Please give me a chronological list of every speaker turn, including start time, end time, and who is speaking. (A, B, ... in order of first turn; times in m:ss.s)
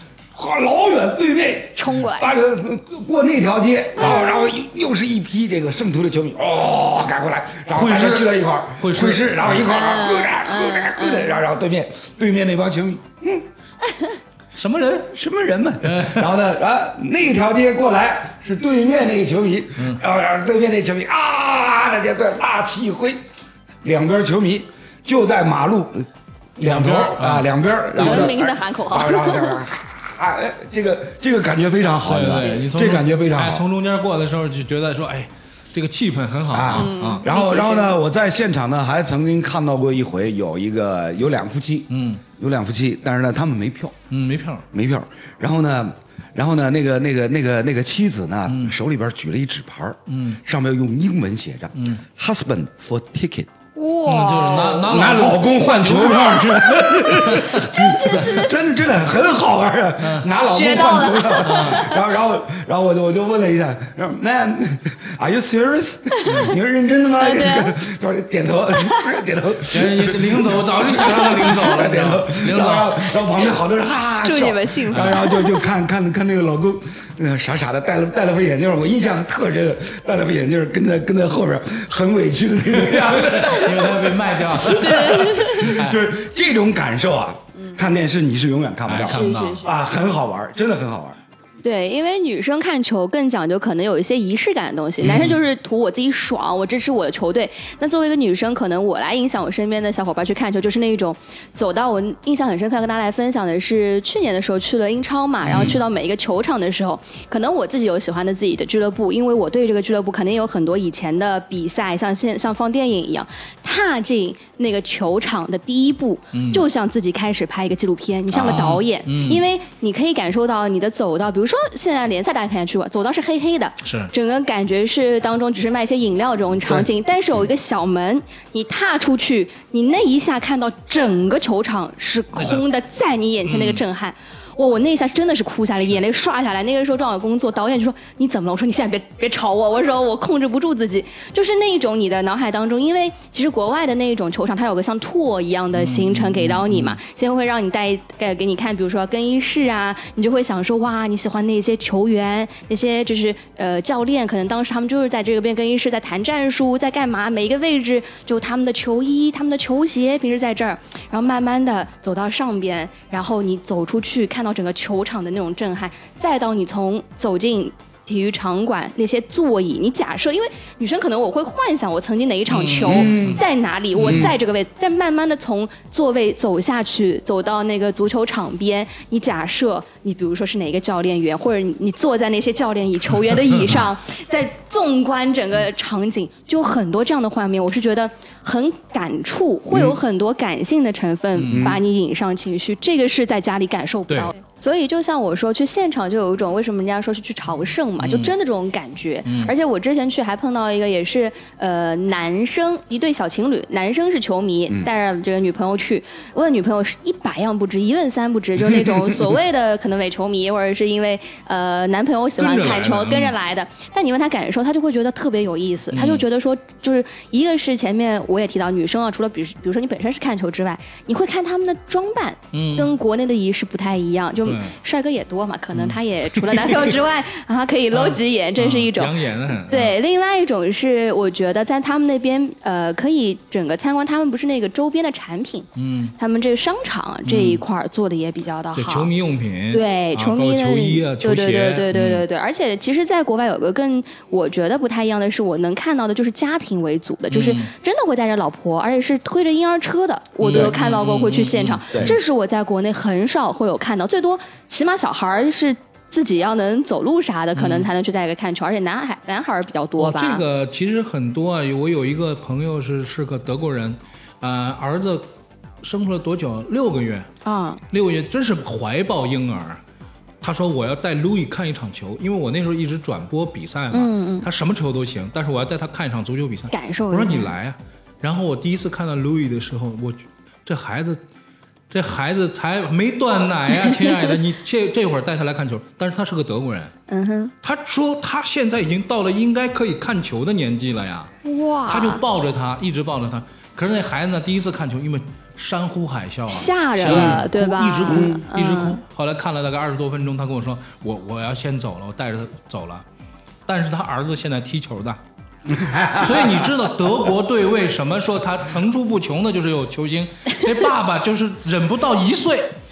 0:00.3-0:13.5 A
0:01.8-0:02.3 B
0:04.0-0:04.5 B
0:07.7-0:09.6 C
0:09.6-0:11.4 B
0:14.5-0:15.2 C
0:15.1-0:23.2 A
0:15.8-0:16.3 C
0:23.8-0:26.1 A
0:26.6-0:33.6 A
0:26.6-0:28.3 C
0:27.9-0:29.6 B
0:32.0-0:37.3 C
0:36.5-0:44.0 A
0:36.7-0:38.0 B
0:41.9-0:42.2 C
0:44.1-0:44.7 C
0:44.7-0:53.5 A
0:48.5-0:48.8 C
0:50.1-0:50.4 C
0:51.8-0:52.0 C
0:53.8-0:54.9 B
0:54.0-0:56.5 C
0:54.9-1:31.2 A
0:55.8-0:58.5 B
0:57.1-0:57.7 C
1:00.0-1:00.3 C
1:00.4-1:02.1 B
1:01.4-1:01.8 C
1:06.2-1:06.6 C
1:07.2-1:07.8 B
1:08.8-1:09.0 B
1:09.7-1:13.1 C
1:14.2-1:15.6 B
1:23.0-1:26.0 C
1:24.7-1:25.8 B
1:28.9-1:29.7 C
1:29.1-1:29.8 B
1:31.6-3:59.1 B
1:35.0-1:35.4 C
1:45.4-1:45.8 C
1:56.3-1:56.6 C
1:58.3-1:59.5 C
1:58.4-1:58.6 A
2:03.8-2:04.1 C
2:12.4-2:12.6 C
2:13.4-2:13.8 C
2:25.8-2:27.0 C
2:52.5-2:53.4 C
2:52.8-2:53.4 A
2:54.0-2:54.3 C
2:54.0-2:54.3 A
3:09.7-3:10.0 A
3:11.4-3:11.8 C
3:11.5-3:11.8 A
3:18.0-3:18.3 C
3:19.3-3:19.5 C
3:32.4-3:33.3 C
3:35.9-3:36.3 C
3:42.5-3:42.9 C
3:44.4-3:44.8 C
3:45.7-3:46.9 C
3:47.9-3:50.0 C
3:55.8-3:56.2 C
3:57.3-3:57.6 C
3:58.7-4:02.2 C
3:59.7-4:20.4 B
4:07.3-4:07.7 C
4:10.4-4:12.2 C
4:17.6-4:17.9 C
4:20.0-4:25.3 C
4:25.8-4:27.3 C
4:27.4-4:27.8 B
4:27.9-4:29.8 C
4:30.4-4:41.2 C
4:33.9-4:34.5 B
4:36.7-4:37.5 B
4:41.9-4:46.9 C
4:43.8-4:44.3 B
4:47.1-4:47.5 B
4:47.6-4:51.3 C
4:51.4-4:52.2 B
4:51.9-5:03.0 C
4:56.5-4:59.0 B
4:57.1-4:57.4 A
4:58.1-4:58.4 A
5:03.7-5:05.2 C
5:05.7-5:06.8 A
5:06.2-5:12.8 C